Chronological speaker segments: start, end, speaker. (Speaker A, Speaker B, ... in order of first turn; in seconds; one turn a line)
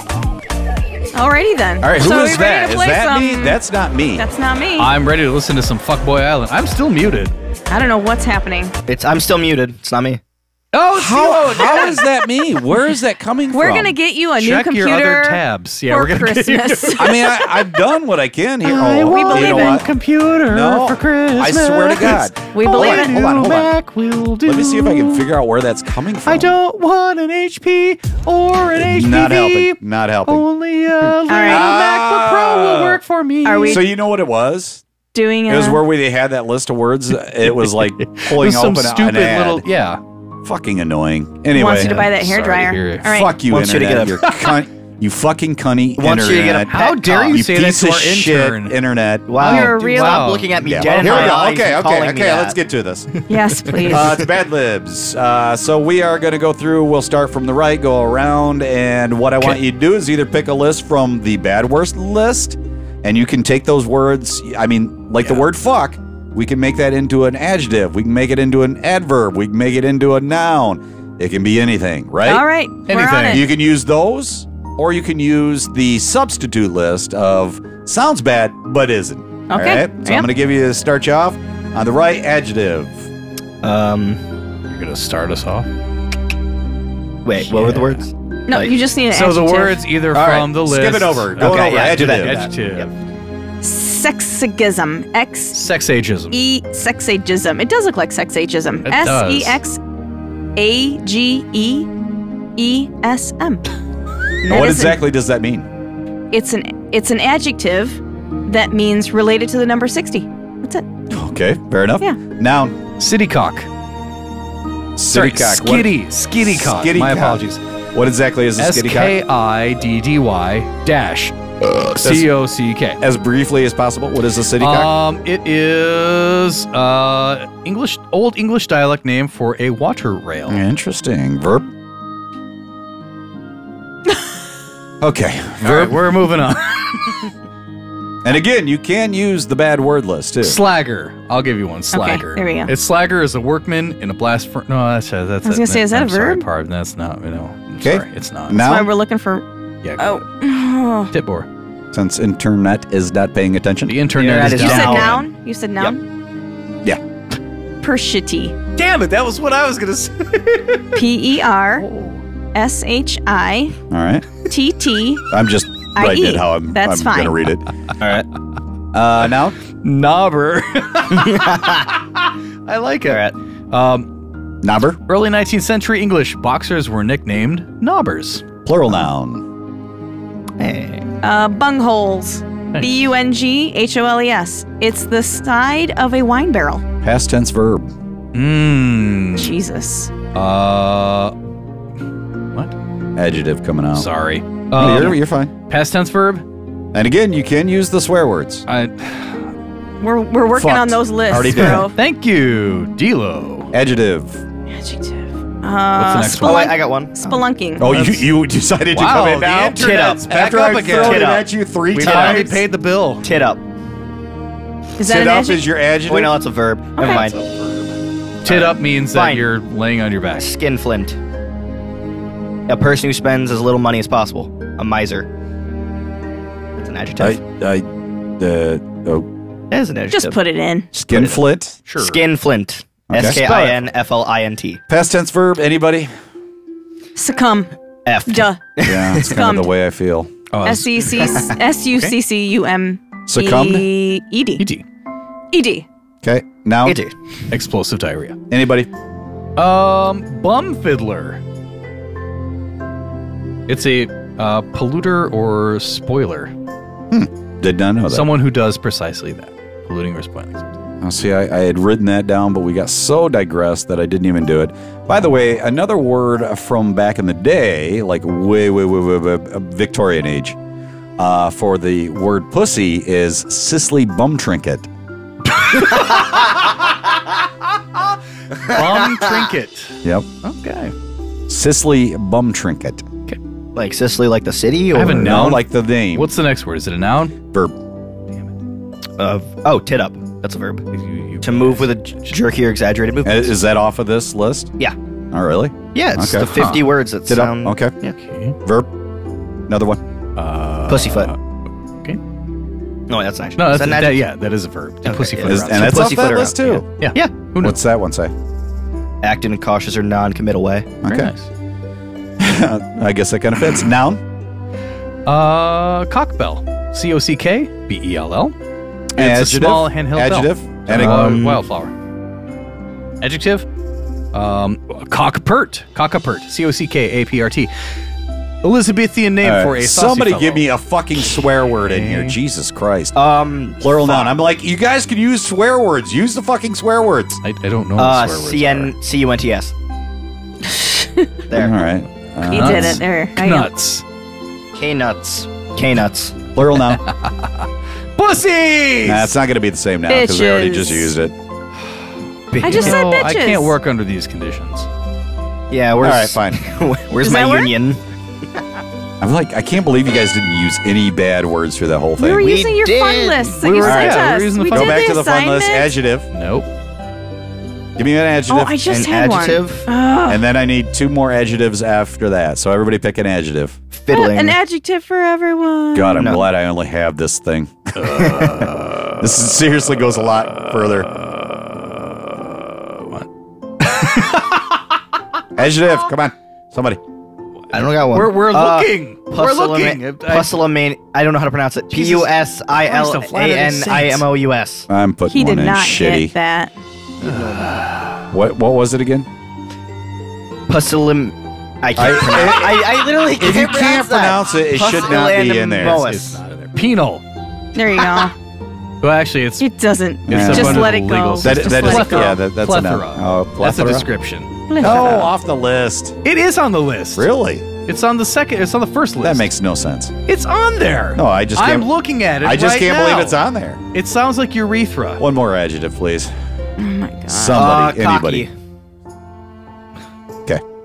Speaker A: 1.1-3.6
Speaker B: 1.8-4.2
Speaker A: 4.2-4.9
Speaker C: 4.8-7.3
Speaker A: 7.7-8.7
Speaker D: 8.9-10.2
Speaker C: 10.7-12.1
Speaker B: 10.9-13.9
Speaker A: 13.5-17.6
Speaker C: 14.4-17.4
Speaker B: 17.0-19.9
Speaker C: 18.6-25.3
Speaker A: 19.1-19.9
Speaker B: 20.5-23.7
Speaker A: 22.5-23.2
Speaker B: 24.4-26.5
Speaker C: 26.3-33.8
Speaker B: 28.8-30.5
Speaker B: 31.0-33.0
Speaker A: 31.3-31.7
Speaker A: 33.4-33.9
Speaker B: 33.7-34.8
Speaker A: 35.1-35.8
Speaker B: 35.5-39.6
Speaker C: 37.4-40.0
Speaker B: 40.4-42.0
Speaker A: 41.5-43.4
Speaker C: 41.6-43.1
Speaker B: 43.0-49.3
Speaker D: 43.5-44.3
Speaker D: 46.0-47.4
Speaker C: 46.7-48.8
Speaker D: 49.3-52.6
Speaker C: 49.4-51.3
Speaker A: 49.4-50.3
Speaker B: 50.6-53.1
Speaker A: 53.3-54.2
Speaker D: 53.7-54.1
Speaker B: 53.9-72.4
Speaker A: 72.2-73.5
Speaker C: 72.9-73.5
Speaker B: 73.3-83.1
Speaker A: 79.5-80.3
Speaker D: 83.6-84.2
Speaker C: 84.7-85.7
Speaker D: 87.2-88.8
Speaker C: 87.4-88.0
Speaker A: 88.5-89.8
Speaker C: 89.1-92.9
Speaker B: 90.1-92.4
Speaker D: 91.4-92.9
Speaker A: 93.6-95.6
Speaker C: 95.5-96.4
Speaker A: 96.3-99.8
Speaker C: 98.8-99.6
Speaker A: 100.6-101.9
Speaker A: 102.6-103.7
Speaker A: 104.4-105.0
Speaker B: 104.5-105.7
Speaker A: 106.3-110.9
Speaker B: 111.1-112.8
Speaker C: 113.0-113.7
Speaker B: 115.0-119.2
Speaker C: 115.1-117.6
Speaker C: 118.6-123.0
Speaker B: 121.9-122.3
Speaker B: 123.0-124.9
Speaker C: 124.6-130.6
Speaker B: 130.5-131.7
Speaker B: 135.0-136.0
Speaker C: 135.6-137.3
Speaker B: 138.2-140.6
Speaker C: 140.4-148.6
Speaker A: 141.9-142.7
Speaker A: 145.4-146.4
Speaker B: 147.8-148.9
Speaker A: 148.5-149.4
Speaker C: 149.8-150.2
Speaker A: 150.0-151.1
Speaker C: 151.1-151.5
Speaker B: 151.9-155.2
Speaker C: 153.9-155.2
Speaker D: 154.2-155.2
Speaker A: 154.5-156.0
Speaker A: 157.8-158.6
Speaker C: 158.8-161.0
Speaker A: 160.9-161.9
Speaker C: 161.8-162.2
Speaker A: 162.5-163.8
Speaker B: 163.9-164.3
Speaker A: 164.5-165.3
Speaker B: 165.3-167.7
Speaker A: 166.0-167.4
Speaker D: 168.0-168.2
Speaker B: 168.9-169.6
Speaker C: 169.7-172.0
Speaker D: 171.1-171.8
Speaker C: 172.7-174.1
Speaker D: 173.1-173.3
Speaker B: 174.6-175.0
Speaker C: 175.1-178.4
Speaker B: 178.7-179.5
Speaker D: 180.6-181.1
Speaker A: 181.2-186.8
Speaker C: 182.7-183.1
Speaker B: 187.0-187.9
Speaker C: 188.3-189.5
Speaker A: 189.4-190.1
Speaker C: 190.3-191.3
Speaker B: 193.2-194.1
Speaker C: 193.9-196.4
Speaker B: 194.8-195.5
Speaker B: 196.9-198.7
Speaker C: 198.7-199.5
Speaker A: 200.0-202.0
Speaker B: 200.6-201.9
Speaker C: 201.4-203.7
Speaker B: 203.7-204.4
Speaker A: 204.7-207.9
Speaker C: 205.9-206.8
Speaker D: 206.4-207.2
Speaker B: 207.8-212.6
Speaker C: 207.8-208.3
Speaker C: 208.9-211.4
Speaker D: 209.8-212.6
Speaker C: 211.9-213.3
Speaker D: 213.2-213.6
Speaker A: 215.0-215.7
Speaker B: 215.0-216.4
Speaker D: 216.1-217.4
Speaker A: 217.0-217.2
Speaker C: 218.4-220.5
Speaker B: 218.5-218.7
Speaker D: 219.1-219.5
Speaker D: 220.4-221.2
Speaker D: 222.7-225.3
Speaker D: 226.8-227.4
Speaker B: 227.2-229.3
Speaker D: 229.7-230.4
Speaker A: 230.1-230.9
Speaker D: 230.9-231.4
Speaker B: 230.9-231.8
Speaker C: 231.9-232.2
Speaker D: 232.0-234.8
Speaker B: 233.1-233.4
Speaker C: 233.2-233.9
Speaker B: 234.9-236.1
Speaker A: 237.2-237.7
Speaker D: 238.1-239.3
Speaker A: 238.3-238.6
Speaker B: 238.8-240.3
Speaker A: 239.2-239.7
Speaker C: 240.5-241.5
Speaker A: 240.6-244.6
Speaker B: 243.3-243.9
Speaker A: 245.5-245.9
Speaker B: 246.2-247.0
Speaker D: 246.8-247.2
Speaker C: 247.5-248.4
Speaker B: 248.5-248.9
Speaker C: 249.6-251.4
Speaker C: 253.7-256.5
Speaker B: 257.1-258.3
Speaker C: 258.1-260.6
Speaker B: 261.0-270.6
Speaker B: 271.2-274.9
Speaker C: 275.6-276.6
Speaker C: 278.6-280.9
Speaker D: 278.7-279.4
Speaker B: 281.5-283.1
Speaker D: 283.8-285.6
Speaker C: 284.9-287.4
Speaker B: 285.2-286.3
Speaker D: 289.2-290.9
Speaker C: 290.9-292.3
Speaker D: 291.4-293.6
Speaker B: 293.2-294.7
Speaker B: 295.3-296.6
Speaker D: 295.9-298.1
Speaker C: 296.5-296.9
Speaker B: 297.3-297.9
Speaker C: 298.2-298.6
Speaker B: 298.6-298.9
Speaker B: 299.7-300.0
Speaker C: 300.4-301.4
Speaker D: 300.9-301.3
Speaker D: 303.1-304.3
Speaker C: 303.6-306.3
Speaker D: 305.1-307.3
Speaker B: 305.4-306.9
Speaker C: 307.0-307.8
Speaker B: 307.6-308.3
Speaker D: 309.2-310.9
Speaker B: 311.0-311.3
Speaker C: 311.1-311.5
Speaker B: 312.4-314.2
Speaker C: 315.3-318.6
Speaker B: 319.2-321.4
Speaker C: 319.2-321.9
Speaker D: 320.9-321.6
Speaker C: 323.2-323.7
Speaker C: 324.3-327.7
Speaker C: 328.6-330.7
Speaker B: 329.4-333.2
Speaker C: 331.8-332.4
Speaker D: 333.1-334.4
Speaker B: 333.8-337.4
Speaker C: 337.4-338.9
Speaker D: 338.0-339.7
Speaker A: 340.7-341.3
Speaker D: 341.5-341.8
Speaker B: 341.5-343.0
Speaker A: 342.5-343.7
Speaker C: 342.5-344.0
Speaker D: 344.7-346.4
Speaker B: 346.6-347.1
Speaker C: 348.2-349.3
Speaker B: 349.1-351.3
Speaker A: 350.1-351.1
Speaker D: 352.5-353.1
Speaker C: 352.6-354.9
Speaker A: 352.6-353.7
Speaker D: 355.7-358.0
Speaker B: 356.0-356.6
Speaker A: 357.2-357.8
Speaker B: 359.2-362.6
Speaker A: 362.2-365.9
Speaker D: 362.3-363.9
Speaker C: 363.6-365.2
Speaker B: 363.8-366.3
Speaker C: 366.3-366.7
Speaker B: 368.0-368.8
Speaker A: 368.5-370.4
Speaker D: 368.9-369.9
Speaker B: 370.3-373.8
Speaker D: 373.9-374.6
Speaker A: 374.1-376.3
Speaker B: 375.9-381.1
Speaker D: 376.1-376.4
Speaker C: 378.0-379.2
Speaker C: 381.1-383.3
Speaker C: 383.8-384.6
Speaker B: 385.6-387.0
Speaker D: 387.7-394.9
Speaker C: 388.1-390.6
Speaker C: 391.9-394.2
Speaker B: 394.9-396.3
Speaker A: 395.3-396.7
Speaker D: 397.2-397.8
Speaker C: 397.2-398.1
Speaker B: 398.3-399.3
Speaker D: 400.7-406.4
Speaker B: 402.0-406.0
Speaker C: 405.8-407.2
Speaker A: 407.8-408.4
Speaker C: 409.0-409.7
Speaker A: 409.6-412.4
Speaker B: 410.3-414.1
Speaker C: 410.3-415.3
Speaker A: 414.7-415.3
Speaker B: 414.8-416.2
Speaker C: 416.2-417.3
Speaker B: 417.1-417.7
Speaker C: 417.8-419.5
Speaker B: 419.2-420.1
Speaker C: 420.3-423.4
Speaker B: 421.1-421.9
Speaker B: 422.4-423.8
Speaker C: 423.9-425.2
Speaker B: 425.2-426.3
Speaker A: 426.8-427.7
Speaker B: 427.3-428.5
Speaker D: 427.5-428.5